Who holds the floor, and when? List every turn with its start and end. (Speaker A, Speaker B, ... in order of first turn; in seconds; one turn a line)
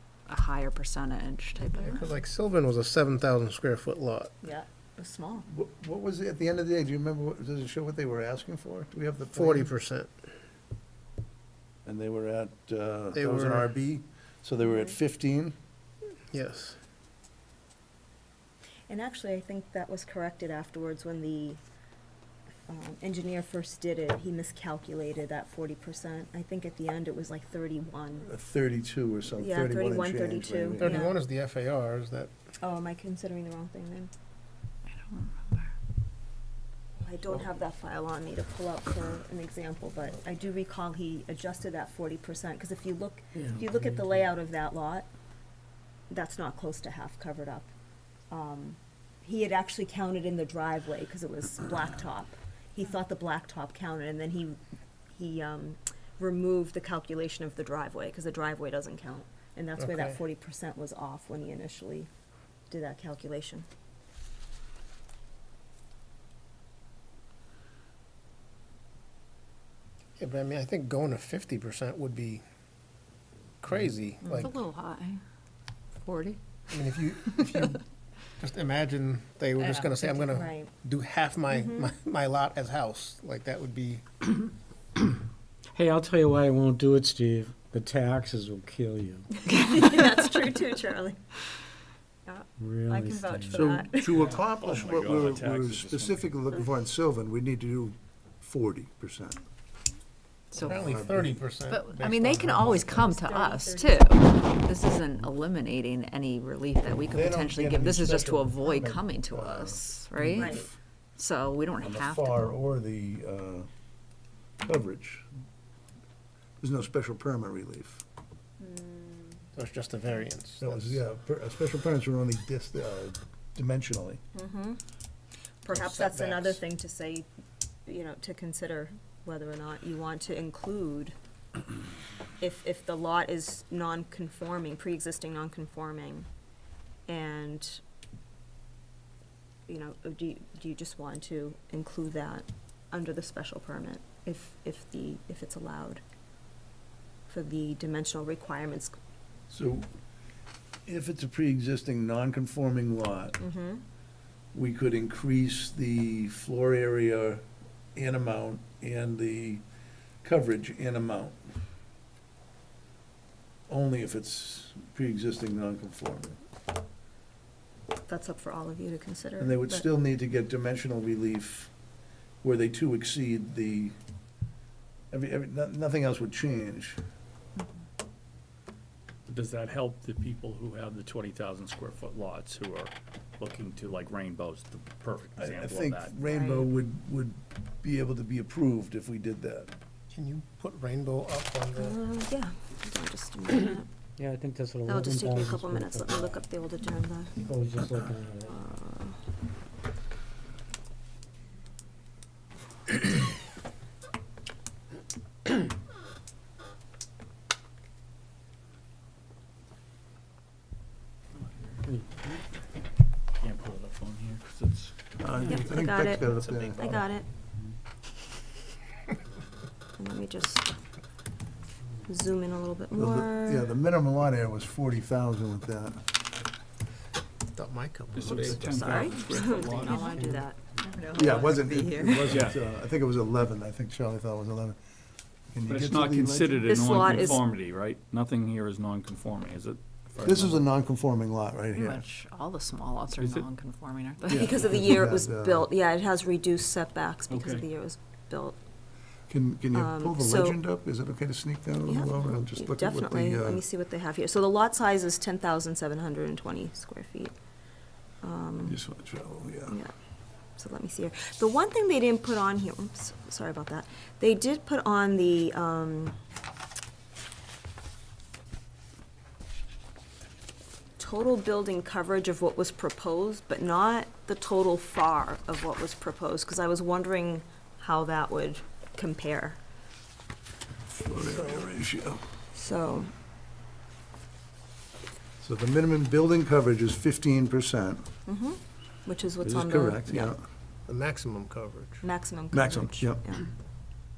Speaker A: 0.3-2.0
Speaker B: 1.8-4.4
Speaker C: 4.4-5.5
Speaker D: 5.5-9.7
Speaker B: 9.3-10.1
Speaker D: 11.8-15.6
Speaker B: 13.1-13.7
Speaker C: 14.6-14.9
Speaker B: 16.3-16.8
Speaker C: 18.9-21.6
Speaker C: 22.7-28.3
Speaker D: 28.2-31.0
Speaker C: 29.4-31.1
Speaker B: 30.8-32.3
Speaker C: 32.6-34.1
Speaker A: 34.9-35.7
Speaker C: 37.0-45.1
Speaker C: 46.1-47.7
Speaker C: 48.3-54.6
Speaker C: 55.1-62.1
Speaker B: 59.8-60.2
Speaker C: 62.7-63.6
Speaker B: 70.2-72.4
Speaker B: 73.6-74.6
Speaker A: 74.3-75.2
Speaker A: 76.0-76.7
Speaker B: 76.7-77.8
Speaker A: 77.2-77.8
Speaker B: 78.4-84.0
Speaker C: 80.3-80.7
Speaker C: 81.5-81.9
Speaker E: 85.7-89.3
Speaker C: 89.5-91.2
Speaker C: 92.2-94.4
Speaker E: 92.6-93.8
Speaker D: 93.5-99.4
Speaker F: 94.1-96.4
Speaker A: 100.5-101.0
Speaker D: 100.6-101.4
Speaker B: 100.6-103.1
Speaker A: 101.7-112.5
Speaker C: 103.1-104.2
Speaker D: 107.1-110.7
Speaker C: 110.3-110.7
Speaker D: 111.8-113.7
Speaker D: 114.6-115.3
Speaker D: 116.6-118.0
Speaker C: 118.6-119.4
Speaker B: 119.5-121.0
Speaker D: 120.6-124.2
Speaker C: 124.3-124.8
Speaker C: 125.6-127.3
Speaker B: 125.7-126.6
Speaker C: 127.8-131.1
Speaker C: 132.4-136.3
Speaker C: 137.1-137.8
Speaker C: 139.7-146.0
Speaker C: 147.3-148.9
Speaker D: 149.5-149.9
Speaker D: 150.8-153.4
Speaker C: 153.4-153.8
Speaker D: 154.5-157.4
Speaker D: 157.9-159.6
Speaker D: 160.2-161.6
Speaker D: 163.7-166.4
Speaker C: 168.1-169.9
Speaker D: 169.4-171.7
Speaker D: 172.4-173.9
Speaker D: 175.1-177.0
Speaker F: 179.3-186.2
Speaker D: 185.4-189.7
Speaker C: 186.2-186.7
Speaker B: 190.1-192.0
Speaker C: 191.8-193.9
Speaker E: 194.2-196.4
Speaker C: 194.8-197.4
Speaker E: 197.4-198.6
Speaker C: 198.4-199.2
Speaker F: 211.4-211.7
Speaker F: 213.3-216.9
Speaker D: 215.2-217.1
Speaker C: 215.4-217.3
Speaker C: 220.0-220.7
Speaker C: 222.1-223.7
Speaker D: 222.9-226.0
Speaker B: 227.5-229.7
Speaker F: 228.1-230.4
Speaker C: 228.6-232.5
Speaker D: 231.1-234.8
Speaker F: 232.2-232.6
Speaker D: 235.5-237.4
Speaker F: 235.7-240.7
Speaker C: 236.6-237.4
Speaker D: 240.2-242.0
Speaker A: 241.7-244.8
Speaker F: 243.2-243.4
Speaker D: 244.3-245.7
Speaker C: 244.3-248.6
Speaker F: 247.3-247.6
Speaker D: 249.3-253.6
Speaker C: 249.7-250.6
Speaker C: 251.8-257.3
Speaker C: 258.2-258.8
Speaker D: 258.6-259.8
Speaker C: 260.6-266.1
Speaker C: 271.0-279.6
Speaker D: 280.9-282.2
Speaker B: 281.3-281.7
Speaker C: 282.5-283.1
Speaker D: 285.4-288.1
Speaker C: 288.2-290.3
Speaker D: 289.4-290.4
Speaker B: 290.9-292.0
Speaker C: 292.0-293.5
Speaker D: 292.5-293.3